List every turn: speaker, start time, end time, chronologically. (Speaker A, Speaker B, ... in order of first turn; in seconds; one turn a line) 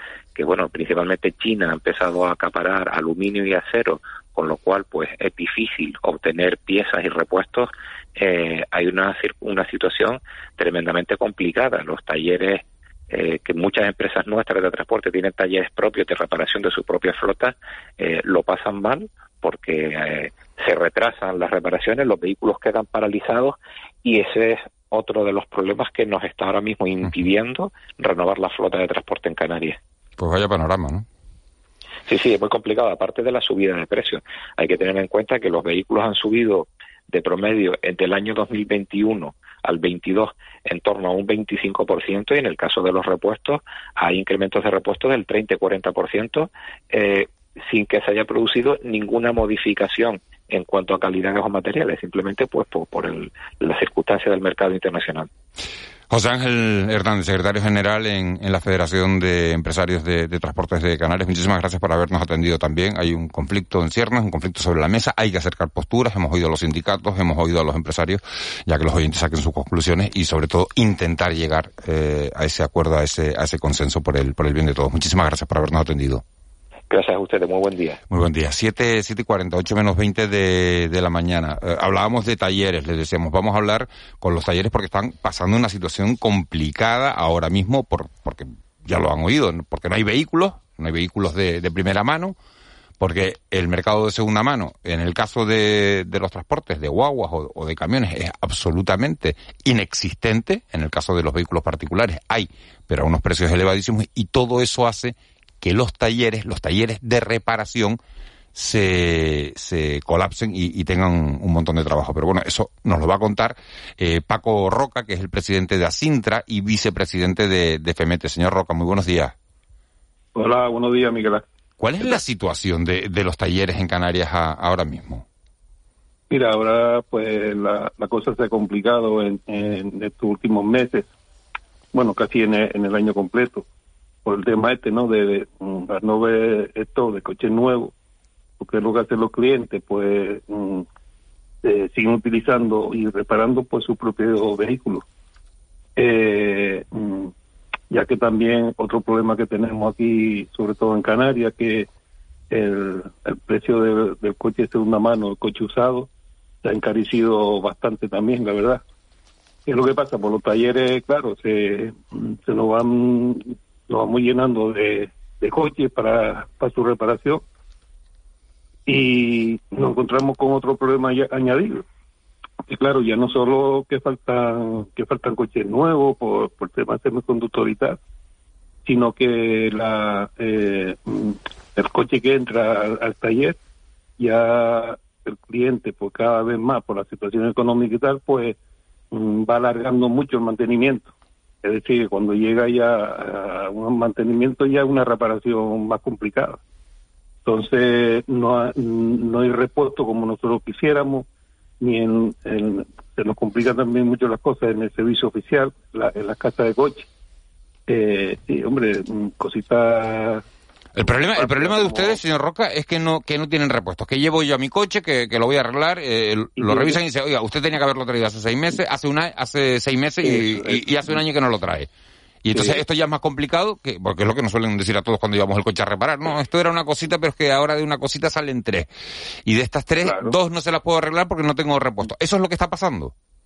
Speaker A: 0.3-29.8
Speaker B: 30.2-31.1
Speaker A: 32.1-55.3
Speaker B: 56.1-76.2
Speaker A: 76.9-78.0
Speaker B: 78.1-92.4
Speaker B: 93.0-108.0
Speaker B: 108.5-119.3
Speaker C: 120.3-121.4
Speaker B: 121.8-125.2
Speaker C: 126.3-131.1
Speaker C: 131.9-133.7
Speaker C: 134.2-137.9
Speaker C: 138.6-140.9
Speaker C: 141.6-145.0
Speaker C: 146.0-147.3
Speaker C: 147.9-151.9
Speaker C: 152.5-156.1
Speaker C: 156.6-158.8
Speaker C: 159.7-167.4
Speaker C: 168.9-171.8
Speaker C: 172.7-178.0
Speaker C: 178.9-183.6
Speaker C: 184.2-188.6
Speaker C: 189.1-191.1
Speaker C: 191.6-196.6
Speaker C: 197.4-201.3
Speaker C: 201.8-207.1
Speaker C: 207.9-210.4
Speaker B: 211.0-221.9
Speaker C: 211.0-212.2
Speaker C: 216.6-217.0
Speaker C: 220.2-221.2
Speaker B: 222.4-228.9
Speaker C: 222.5-222.8
Speaker B: 229.5-233.1
Speaker C: 230.0-230.3